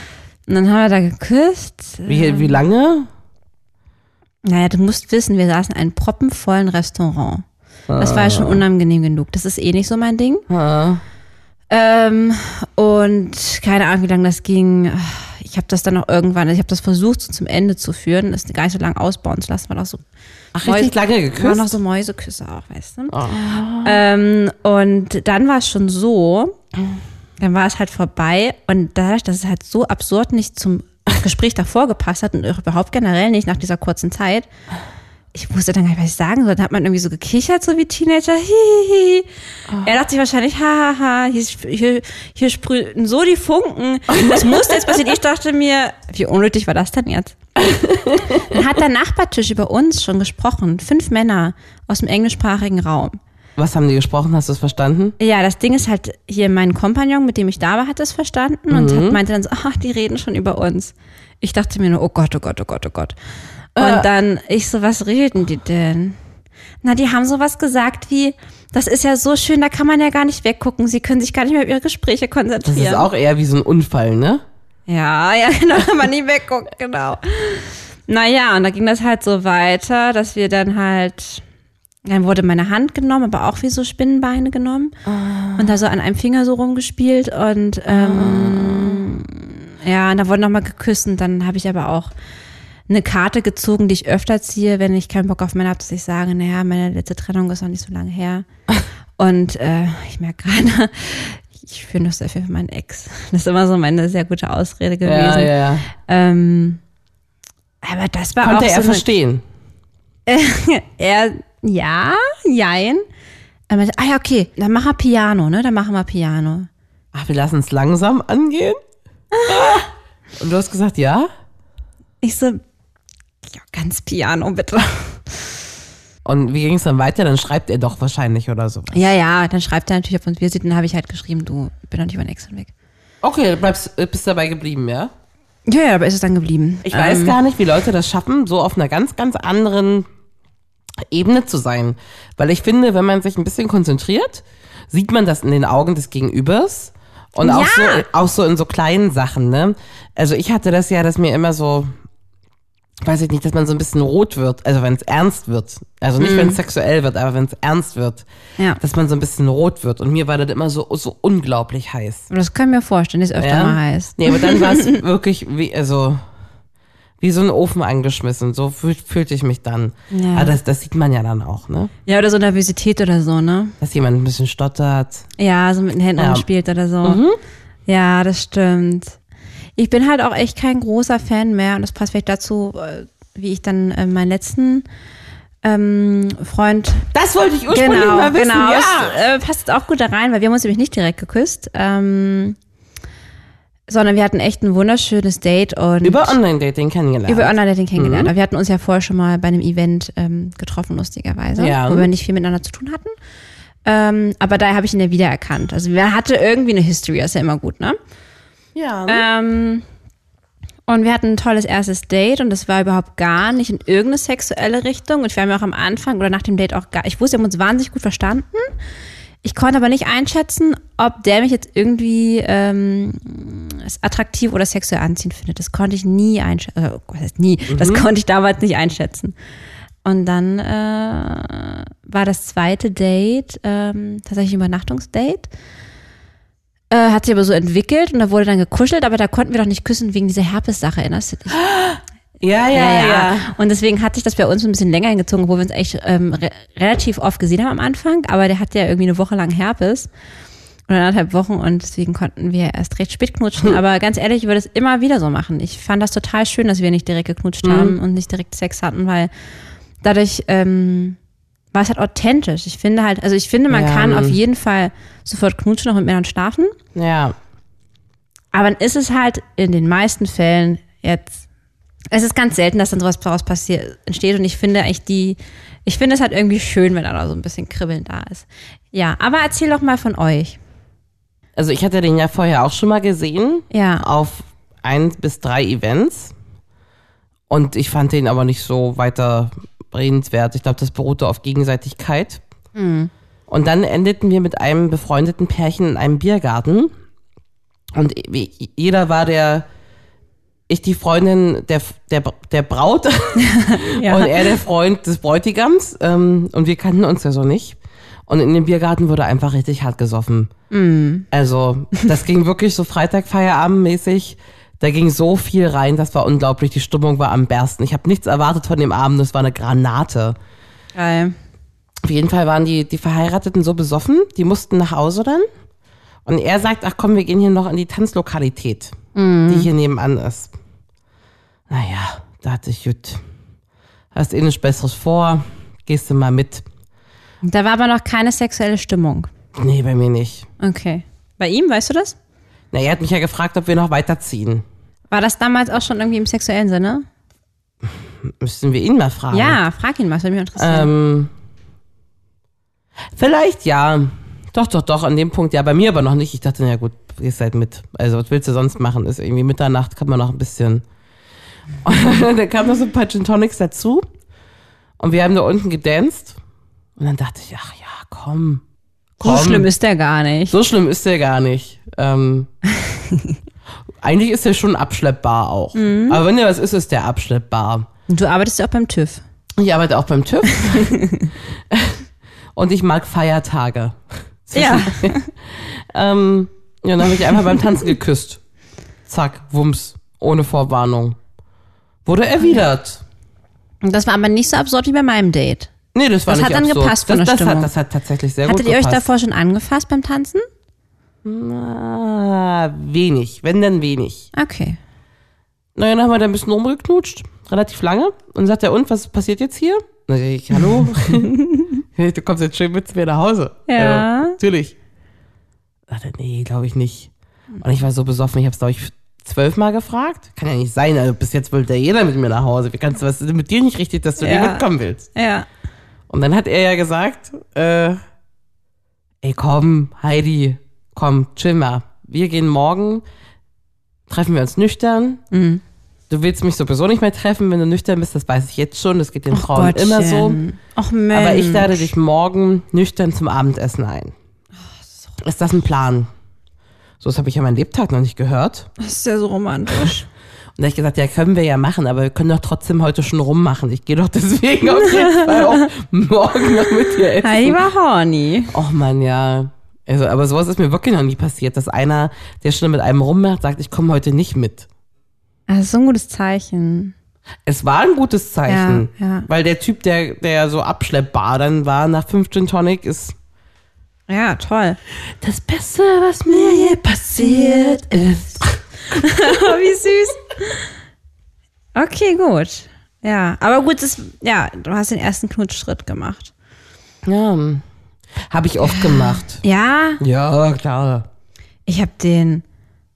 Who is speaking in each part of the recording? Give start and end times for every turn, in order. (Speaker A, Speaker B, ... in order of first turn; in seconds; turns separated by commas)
Speaker A: 0.5-2.6, Speaker B: 2.1-3.1, Speaker A: 4.4-7.4, Speaker B: 7.9-8.6, Speaker A: 8.0-10.4, Speaker B: 10.5-11.0, Speaker A: 11.7-20.0, Speaker B: 20.5-21.7, Speaker A: 20.6-23.1, Speaker B: 23.1-24.0, Speaker A: 23.8-26.6, Speaker A: 27.4-34.5, Speaker A: 35.3-39.3, Speaker A: 39.8-47.3, Speaker B: 44.1-45.0, Speaker B: 47.6-48.6, Speaker A: 48.3-53.2, Speaker B: 53.6-55.1, Speaker A: 55.2-63.1, Speaker B: 58.7-59.2, Speaker B: 63.8-64.1, Speaker A: 63.8-66.2, Speaker A: 66.8-73.1, Speaker B: 72.7-74.4, Speaker A: 74.9-81.4, Speaker A: 82.0-84.9, Speaker B: 85.0-85.7, Speaker A: 85.5-92.1, Speaker B: 87.9-89.1, Speaker A: 92.9-98.4, Speaker A: 99.2-106.8, Speaker B: 105.0-105.9, Speaker A: 107.8-109.0, Speaker B: 108.4-109.4, Speaker A: 110.3-113.0, Speaker A: 113.7-116.7, Speaker B: 117.1-118.8, Speaker A: 119.3-119.8, Speaker B: 119.5-119.8, Speaker B: 120.4-121.3, Speaker A: 122.2-122.6, Speaker A: 123.5-125.5, Speaker B: 126.2-129.1, Speaker A: 128.9-132.7, Speaker B: 133.2-135.1, Speaker A: 135.7-137.4, Speaker B: 136.8-140.1, Speaker B: 141.0-151.9, Speaker A: 147.4-148.1, Speaker B: 153.0-158.2, Speaker A: 156.2-156.6, Speaker B: 158.8-162.3, Speaker A: 162.3-165.0, Speaker B: 163.4-166.2, Speaker B: 167.2-171.9, Speaker A: 170.1-170.5, Speaker A: 172.1-173.7, Speaker B: 173.8-175.3, Speaker A: 175.4-177.2, Speaker B: 176.2-176.4, Speaker B: 177.0-177.4, Speaker A: 177.9-179.2, Speaker A: 179.8-184.8, Speaker A: 185.6-187.0, Speaker B: 187.1-189.2, Speaker A: 187.7-192.6, Speaker A: 193.9-196.4, Speaker B: 196.0-198.3, Speaker A: 197.3-203.1, Speaker B: 201.6-202.1, Speaker A: 203.8-208.0, Speaker B: 208.7-209.2, Speaker A: 209.1-209.8, Speaker A: 210.9-218.7, Speaker A: 219.4-229.3, Speaker B: 227.7-228.1, Speaker A: 230.0-235.5, Speaker A: 236.9-241.6, Speaker B: 241.5-243.5, Speaker A: 242.7-250.1, Speaker A: 250.9-259.3, Speaker B: 257.6-258.0, Speaker A: 260.0-261.2, Speaker A: 261.7-266.8, Speaker B: 263.7-264.4, Speaker B: 266.9-267.4, Speaker A: 268.5-271.4, Speaker A: 272.1-280.6, Speaker B: 281.6-286.3, Speaker A: 283.7-284.0, Speaker B: 287.5-292.4, Speaker A: 292.7-293.1, Speaker B: 293.5-296.9, Speaker B: 297.9-299.6, Speaker B: 300.7-310.5, Speaker A: 303.4-304.5, Speaker A: 310.7-311.2, Speaker B: 311.3-320.4, Speaker A: 320.9-321.3, Speaker B: 322.0-325.5, Speaker B: 326.2-328.9, Speaker A: 329.1-329.7, Speaker B: 329.5-330.5, Speaker B: 331.7-333.2, Speaker B: 334.1-336.6, Speaker A: 337.4-339.3, Speaker B: 339.6-340.5, Speaker A: 340.6-342.1, Speaker B: 342.7-344.6, Speaker A: 345.1-347.0, Speaker B: 347.8-349.6, Speaker A: 349.3-350.9, Speaker B: 350.6-351.3, Speaker B: 353.1-360.8, Speaker B: 361.8-364.1, Speaker B: 365.0-366.4, Speaker B: 367.0-368.6, Speaker B: 369.2-369.7, Speaker A: 369.2-370.5, Speaker B: 370.5-372.5, Speaker A: 372.7-373.4, Speaker B: 374.0-377.9, Speaker A: 375.7-376.2, Speaker A: 378.1-379.2, Speaker B: 379.6-381.0, Speaker A: 380.6-381.3, Speaker B: 381.7-382.0, Speaker B: 382.5-388.4, Speaker A: 384.5-385.3, Speaker B: 389.1-391.2, Speaker B: 392.0-393.0, Speaker A: 393.8-395.7, Speaker B: 395.9-399.1, Speaker A: 396.3-397.7, Speaker A: 398.4-400.4, Speaker B: 401.2-404.3, Speaker A: 404.3-404.8, Speaker B: 405.7-411.4, Speaker B: 411.9-414.7, Speaker A: 413.7-414.4, Speaker B: 415.9-425.1, Speaker A: 424.2-425.4, Speaker B: 426.1-428.0, Speaker B: 429.2-433.0, Speaker B: 434.1-435.2, Speaker A: 435.3-435.6, Speaker B: 436.1-440.4, Speaker A: 439.3-441.9, Speaker B: 441.1-444.1, Speaker B: 445.2-446.1, Speaker B: 447.0-448.7, Speaker A: 448.8-450.1, Speaker B: 450.6-457.6, Speaker A: 454.7-455.7, Speaker A: 456.9-458.5, Speaker B: 458.5-464.7, Speaker A: 465.5-466.9, Speaker B: 467.4-473.1, Speaker A: 468.5-469.3, Speaker A: 474.1-474.8, Speaker B: 475.1-478.6, Speaker A: 476.3-478.2, Speaker A: 478.9-480.7, Speaker A: 481.7-486.3, Speaker B: 487.0-487.6, Speaker B: 488.3-489.4, Speaker A: 488.6-490.0, Speaker B: 490.0-491.1, Speaker A: 491.6-492.4